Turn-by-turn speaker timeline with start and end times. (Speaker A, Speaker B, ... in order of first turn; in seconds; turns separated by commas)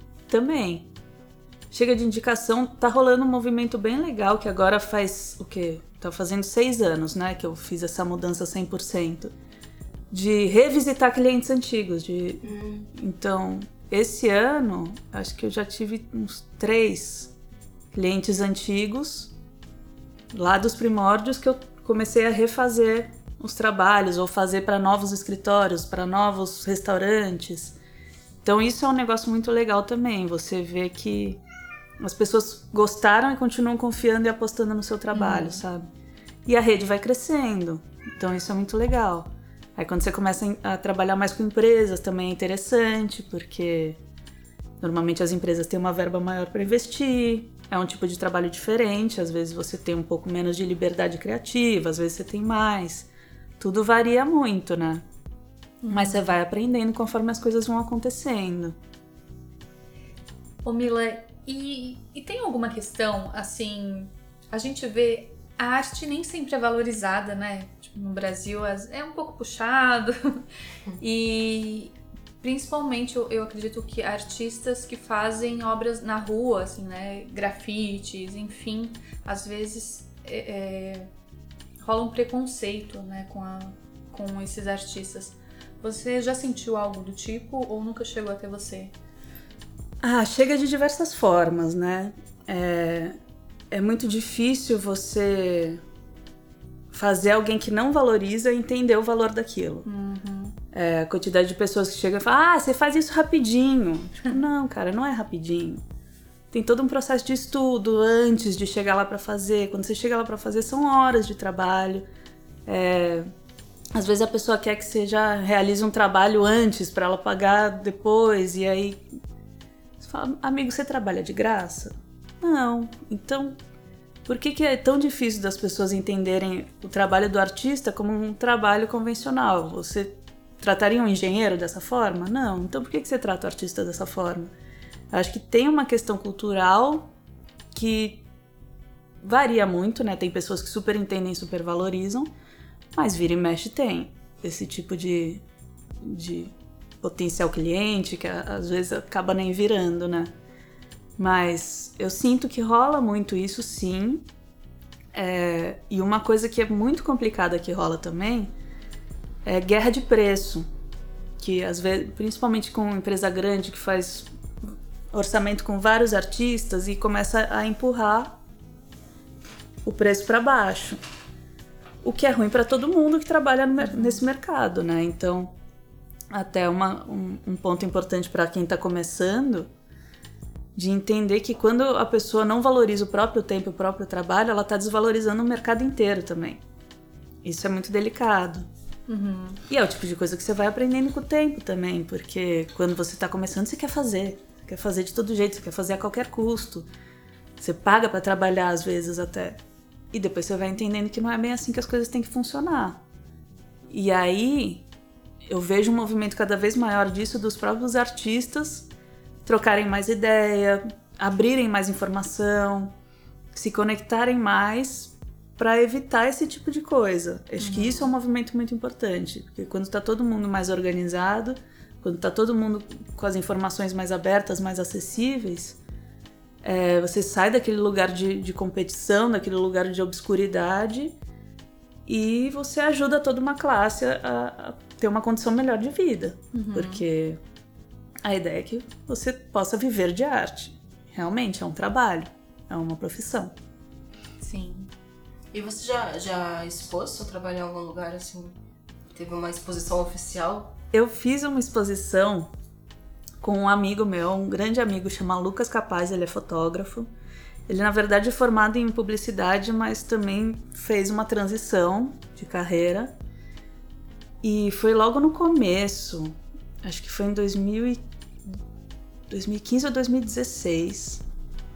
Speaker A: 0.3-0.9, Speaker A: 1.7-9.3, Speaker A: 10.1-17.3, Speaker B: 12.4-12.9, Speaker A: 17.9-19.3, Speaker A: 20.3-27.8, Speaker A: 28.4-31.4, Speaker A: 32.0-35.8, Speaker C: 35.1-35.6, Speaker A: 36.5-44.0, Speaker A: 44.8-55.0, Speaker C: 55.8-56.3, Speaker A: 55.9-58.8, Speaker C: 60.6-70.4, Speaker C: 71.0-81.1, Speaker C: 81.8-88.9, Speaker A: 90.0-93.2, Speaker A: 93.7-95.8, Speaker A: 96.9-99.9, Speaker C: 99.8-100.6, Speaker A: 100.7-105.8, Speaker A: 106.5-112.0, Speaker A: 112.7-113.3, Speaker A: 114.0-119.0, Speaker A: 120.0-123.5, Speaker A: 124.2-134.5, Speaker A: 135.1-137.1, Speaker A: 137.7-138.2, Speaker A: 139.2-142.3, Speaker A: 142.9-145.4, Speaker A: 146.0-150.3, Speaker A: 151.2-154.2, Speaker A: 155.1-158.5, Speaker A: 159.4-160.7, Speaker A: 161.4-168.4, Speaker A: 169.8-171.0, Speaker A: 172.0-175.5, Speaker A: 176.3-179.7, Speaker A: 180.7-186.6, Speaker A: 187.4-188.7, Speaker C: 189.1-189.6, Speaker A: 189.7-196.9, Speaker A: 197.6-199.6, Speaker A: 200.1-203.0, Speaker A: 203.9-204.8, Speaker A: 205.5-208.9, Speaker A: 209.4-212.9, Speaker A: 213.5-225.8, Speaker C: 217.6-218.1, Speaker A: 226.6-231.1, Speaker A: 232.1-237.4, Speaker C: 236.5-237.0, Speaker A: 238.2-243.5, Speaker C: 244.4-244.9, Speaker B: 245.5-248.6, Speaker B: 249.1-250.8, Speaker A: 250.9-252.5, Speaker A: 253.4-257.1, Speaker A: 257.7-263.1, Speaker A: 264.4-268.0, Speaker A: 269.3-271.2